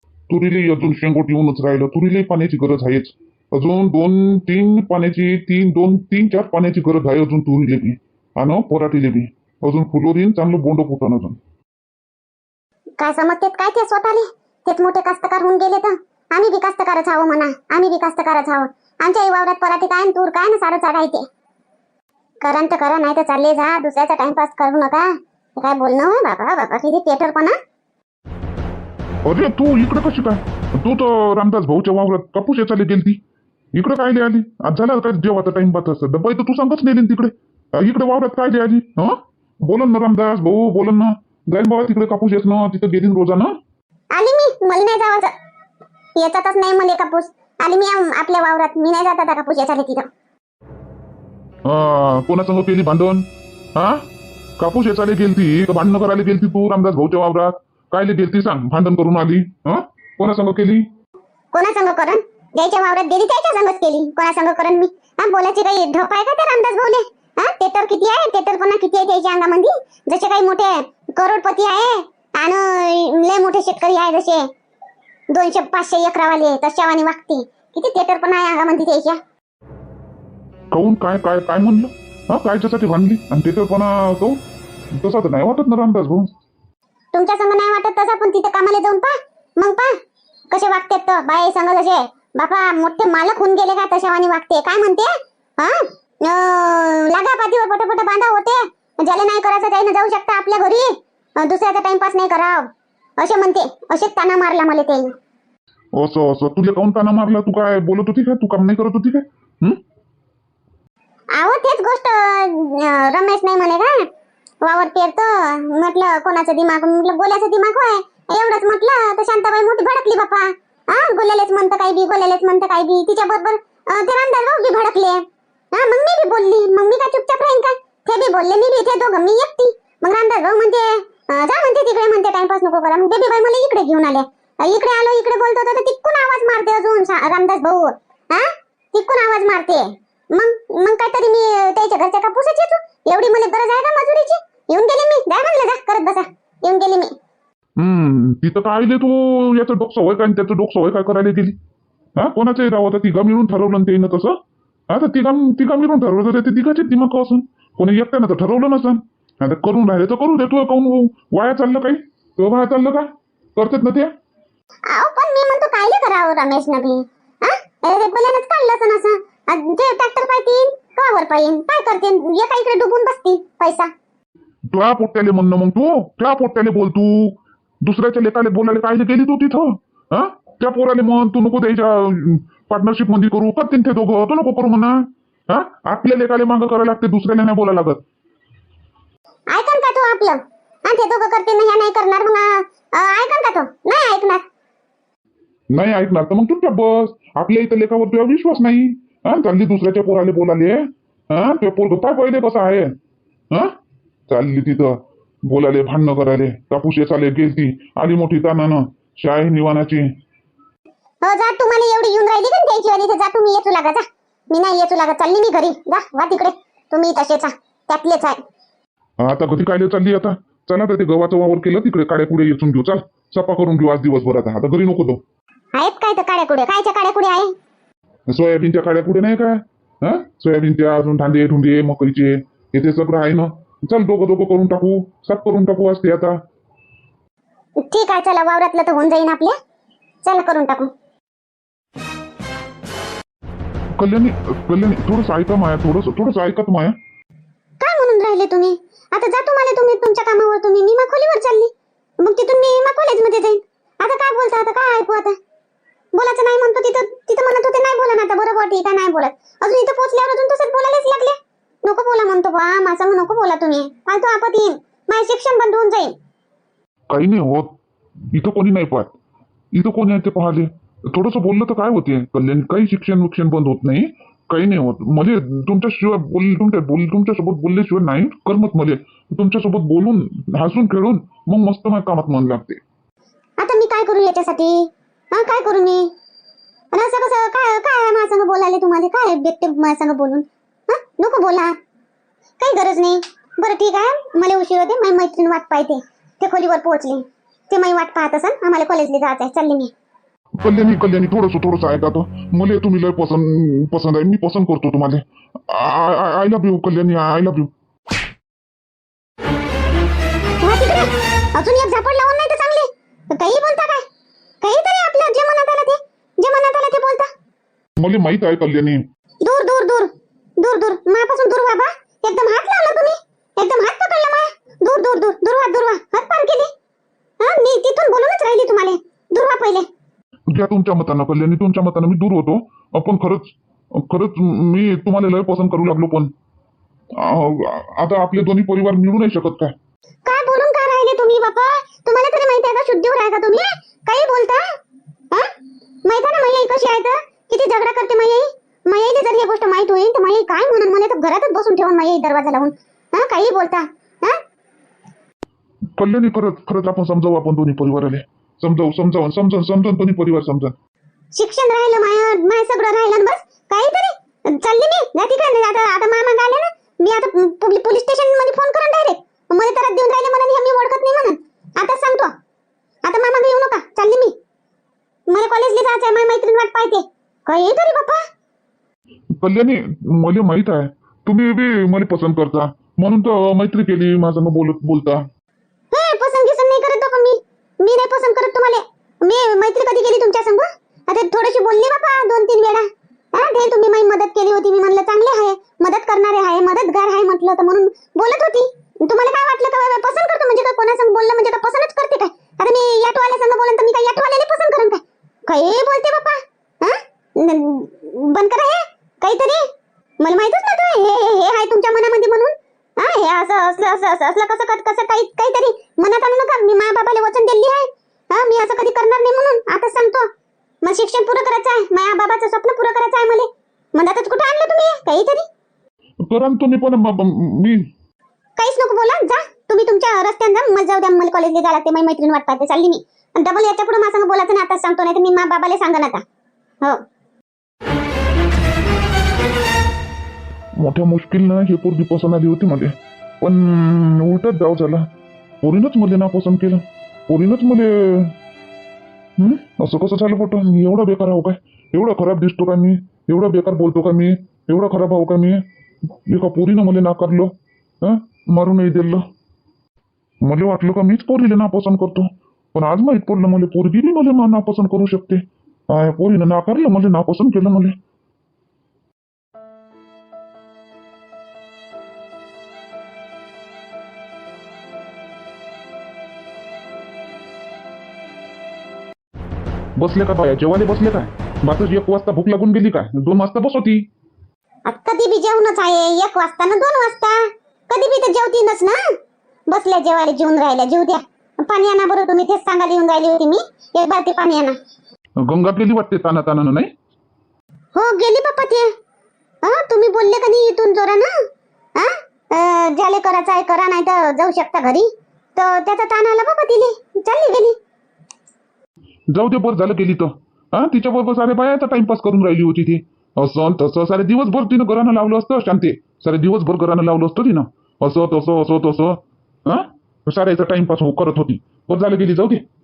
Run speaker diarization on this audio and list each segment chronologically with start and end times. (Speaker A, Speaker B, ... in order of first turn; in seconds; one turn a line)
Speaker A: 0.3-11.4
Speaker B: 13.0-21.3
Speaker B: 22.4-27.6
Speaker A: 29.2-33.2
Speaker A: 33.8-43.5
Speaker B: 44.1-45.3
Speaker B: 46.1-50.1
Speaker A: 51.7-54.0
Speaker A: 54.6-60.8
Speaker B: 61.5-74.5
Speaker B: 75.3-79.2
Speaker A: 80.7-84.4
Speaker A: 85.0-86.3
Speaker B: 87.1-90.0
Speaker B: 90.5-105.1
Speaker A: 106.0-109.8
Speaker B: 111.4-114.1
Speaker B: 114.6-147.1
Speaker A: 147.8-151.5
Speaker A: 152.2-154.3
Speaker A: 154.9-164.1
Speaker B: 164.9-173.9
Speaker A: 174.7-184.9
Speaker A: 185.5-188.0
Speaker B: 189.5-194.4
Speaker A: 195.7-202.9
Speaker A: 204.3-204.9
Speaker A: 205.5-210.1
Speaker B: 211.2-218.4
Speaker A: 219.2-225.2
Speaker B: 225.7-227.5
Speaker A: 228.3-236.4
Speaker B: 237.8-239.5
Speaker B: 240.2-240.9
Speaker A: 244.0-246.9
Speaker B: 247.8-255.3
Speaker B: 256.1-266.1
Speaker A: 267.1-267.7
Speaker A: 268.3-269.1
Speaker A: 269.7-282.8
Speaker B: 283.6-286.1
Speaker B: 286.9-291.8
Speaker B: 292.6-299.9
Speaker A: 300.6-307.7
Speaker B: 310.6-314.0
Speaker B: 314.6-317.3
Speaker A: 318.0-319.0
Speaker B: 319.4-326.7
Speaker B: 327.4-329.9
Speaker A: 330.5-336.3
Speaker A: 337.2-339.7
Speaker B: 340.2-344.6
Speaker B: 346.0-354.4
Speaker A: 356.0-360.7
Speaker B: 361.3-372.3
Speaker B: 373.0-374.3
Speaker B: 375.3-378.2
Speaker A: 379.4-385.2
Speaker B: 385.9-409.6
Speaker B: 410.2-420.3
Speaker B: 420.8-425.5
Speaker A: 426.2-427.8
Speaker B: 428.6-436.2
Speaker A: 440.8-445.1
Speaker A: 445.6-448.3
Speaker A: 449.4-455.6
Speaker A: 456.2-459.2
Speaker A: 460.4-467.9
Speaker A: 480.0-484.0
Speaker B: 484.9-489.1
Speaker B: 489.7-494.8
Speaker A: 495.4-496.9
Speaker B: 497.9-498.9
Speaker B: 499.6-501.3
Speaker B: 501.9-507.8
Speaker A: 509.3-522.6